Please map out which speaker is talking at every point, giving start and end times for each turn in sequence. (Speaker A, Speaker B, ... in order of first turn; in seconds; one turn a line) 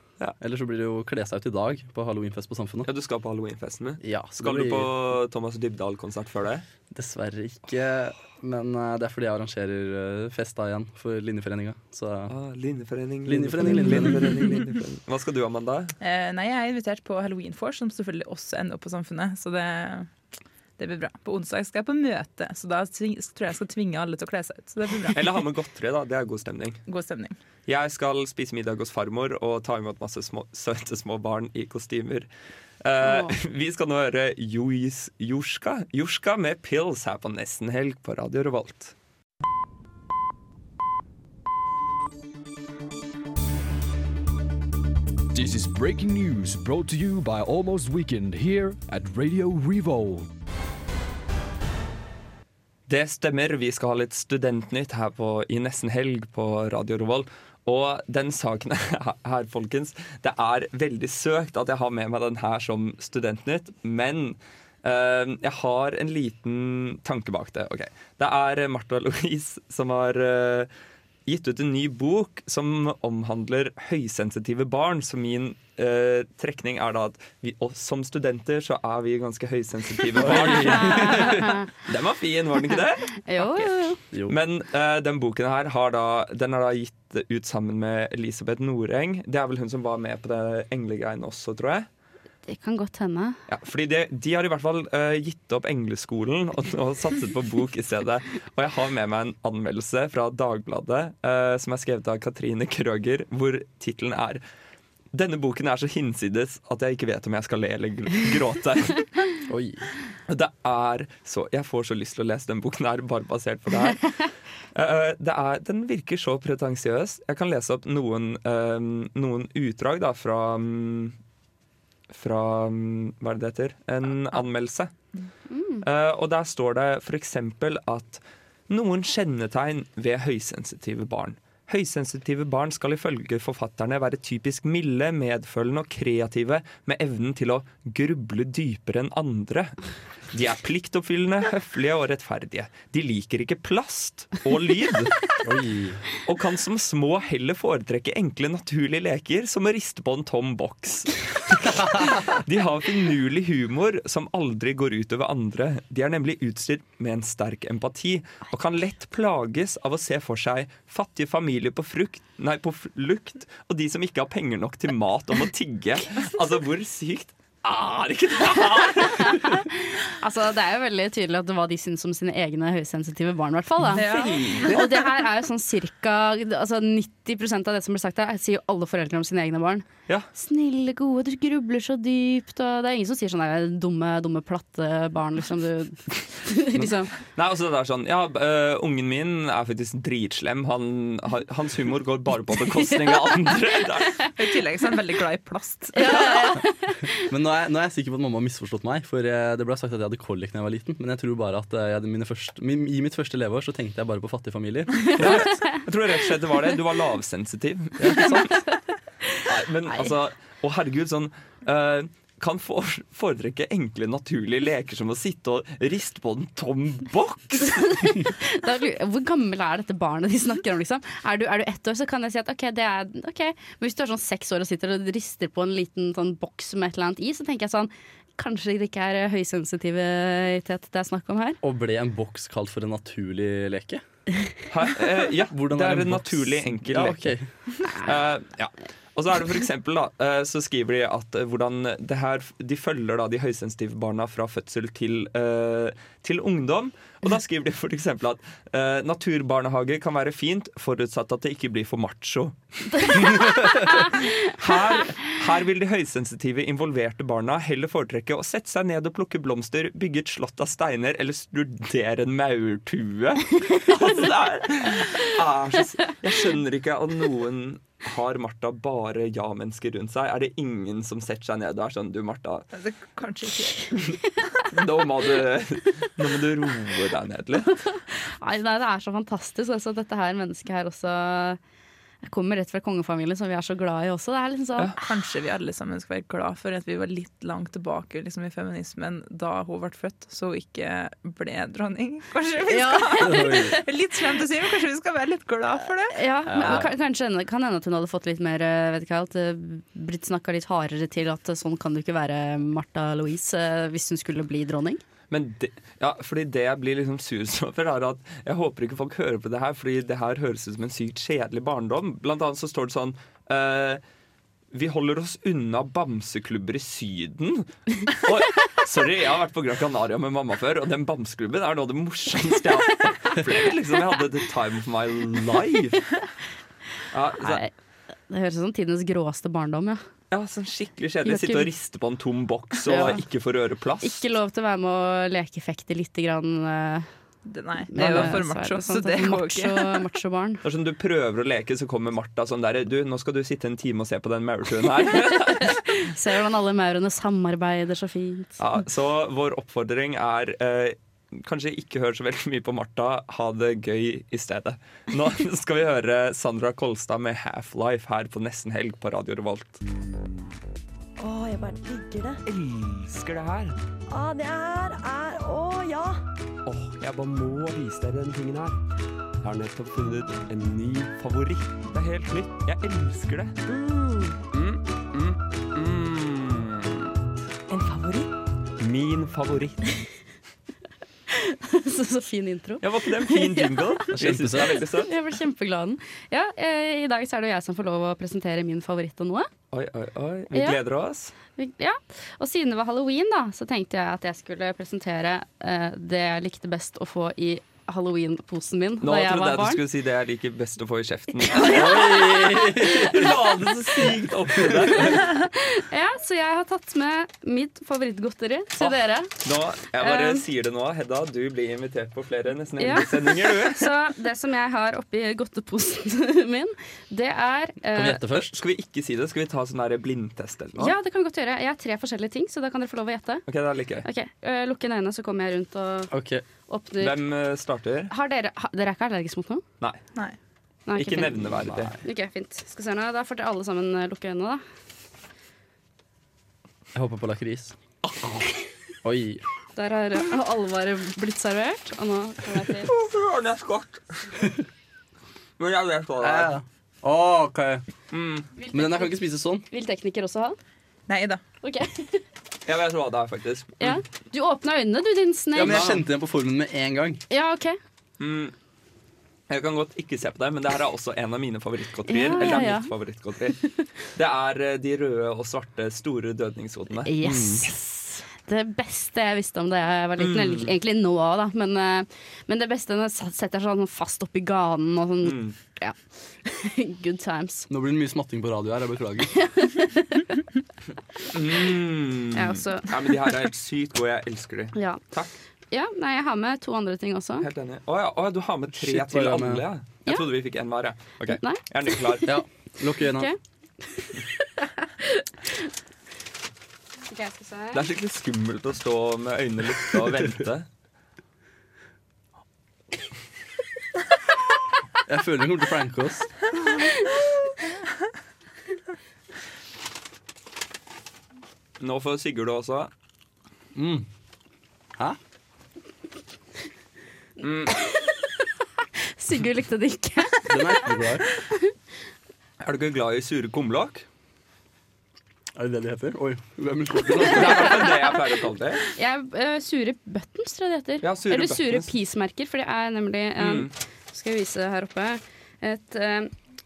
Speaker A: 0.4-2.9
Speaker B: 2.8-6.6
Speaker A: 4.0-4.9
Speaker A: 6.9-12.3
Speaker B: 12.3-15.9
Speaker A: 13.2-14.3
Speaker C: 16.0-20.1
Speaker C: 20.8-25.3
Speaker B: 25.1-26.8
Speaker C: 26.9-27.4
Speaker B: 27.7-32.3
Speaker B: 32.8-38.9
Speaker D: 33.0-33.3
Speaker E: 45.3-50.3
Speaker B: 52.9-70.7
Speaker B: 71.2-83.6
Speaker A: 80.2-81.4
Speaker D: 80.9-81.6
Speaker D: 83.2-84.0
Speaker B: 84.3-91.9
Speaker D: 92.5-93.4
Speaker B: 93.5-104.4
Speaker B: 105.1-109.0
Speaker A: 109.5-109.8
Speaker B: 110.3-114.1
Speaker B: 114.7-121.2
Speaker B: 122.1-124.9
Speaker D: 125.5-125.8
Speaker B: 125.8-139.8
Speaker B: 140.3-145.3
Speaker A: 145.4-146.0
Speaker B: 146.2-169.6
Speaker D: 169.2-169.6
Speaker D: 170.1-187.1
Speaker C: 173.9-174.7
Speaker B: 174.0-174.8
Speaker B: 187.3-194.1
Speaker C: 194.3-196.4
Speaker D: 195.9-197.0
Speaker A: 197.3-205.4
Speaker B: 205.2-208.4
Speaker A: 208.0-208.5
Speaker B: 209.4-218.0
Speaker D: 217.7-231.6
Speaker A: 231.6-234.0
Speaker B: 234.7-237.3
Speaker A: 235.5-237.5
Speaker B: 237.9-272.6
Speaker C: 272.7-274.1
Speaker B: 274.7-277.7
Speaker D: 277.9-281.6
Speaker D: 282.2-284.9
Speaker C: 285.0-296.8
Speaker D: 292.7-293.7
Speaker A: 293.3-293.7
Speaker D: 296.1-305.0
Speaker B: 305.3-314.0
Speaker B: 314.7-326.0
Speaker B: 327.1-327.6
Speaker D: 327.4-327.7
Speaker D: 328.3-330.0
Speaker B: 330.3-334.2
Speaker D: 331.2-331.7
Speaker D: 332.9-333.2
Speaker D: 334.0-337.1
Speaker C: 337.4-340.1
Speaker D: 337.9-340.6
Speaker B: 340.6-345.8
Speaker D: 345.6-348.6
Speaker B: 348.6-359.8
Speaker F: 361.2-362.4
Speaker B: 362.5-363.8
Speaker F: 364.1-366.2
Speaker B: 366.6-368.8
Speaker B: 369.4-373.6
Speaker F: 373.7-374.4
Speaker B: 374.5-377.1
Speaker F: 377.7-378.3
Speaker B: 378.8-379.9
Speaker D: 381.3-383.9
Speaker B: 382.8-385.1
Speaker A: 384.1-384.8
Speaker D: 385.0-389.5
Speaker B: 389.7-391.3
Speaker D: 390.5-390.8
Speaker D: 391.6-399.8
Speaker B: 399.0-405.2
Speaker A: 401.5-403.3
Speaker A: 404.6-405.1
Speaker D: 405.2-409.3
Speaker B: 408.8-413.9
Speaker D: 410.0-410.4
Speaker D: 412.8-418.2
Speaker A: 417.9-418.5
Speaker B: 418.2-420.9
Speaker D: 420.8-423.4
Speaker B: 423.5-424.1
Speaker D: 424.0-426.1
Speaker A: 426.1-426.4
Speaker D: 426.7-427.2
Speaker B: 427.0-428.1
Speaker D: 428.1-429.6
Speaker D: 430.9-434.6
Speaker B: 430.9-431.9
Speaker A: 436.9-437.8
Speaker A: 439.0-439.4
Speaker D: 439.8-442.9
Speaker B: 442.8-444.4
Speaker B: 445.6-446.5
Speaker A: 446.2-447.8
Speaker B: 448.1-448.5
Speaker D: 448.6-449.1
Speaker A: 448.7-449.6
Speaker D: 449.7-450.6
Speaker C: 451.1-451.4
Speaker D: 451.6-452.2
Speaker B: 452.6-454.0
Speaker D: 453.8-455.9
Speaker A: 455.6-457.2
Speaker B: 455.6-456.0
Speaker D: 457.3-457.8
Speaker B: 458.2-458.5
Speaker B: 459.5-463.6
Speaker D: 462.1-462.9
Speaker B: 464.1-467.1
Speaker D: 467.1-477.7
Speaker A: 467.2-467.6
Speaker B: 470.2-470.7
Speaker B: 475.2-475.5
Speaker A: 477.7-479.3
Speaker D: 479.4-480.2
Speaker B: 481.3-485.3
Speaker D: 482.3-482.9
Speaker D: 484.7-485.0
Speaker D: 485.7-487.4
Speaker B: 487.4-492.3
Speaker A: 488.7-489.6
Speaker D: 491.3-491.6
Speaker A: 492.3-493.3
Speaker D: 493.9-495.6
Speaker D: 497.1-497.8
Speaker B: 497.7-500.7
Speaker A: 505.1-506.3
Speaker B: 511.8-512.9
Speaker A: 513.7-514.0
Speaker B: 517.4-517.7
Speaker D: 519.2-520.8
Speaker A: 520.5-521.2
Speaker D: 521.4-521.7
Speaker B: 522.6-524.0
Speaker A: 525.5-527.9
Speaker B: 527.2-528.8
Speaker D: 528.9-536.3
Speaker B: 531.0-531.9
Speaker B: 533.4-533.7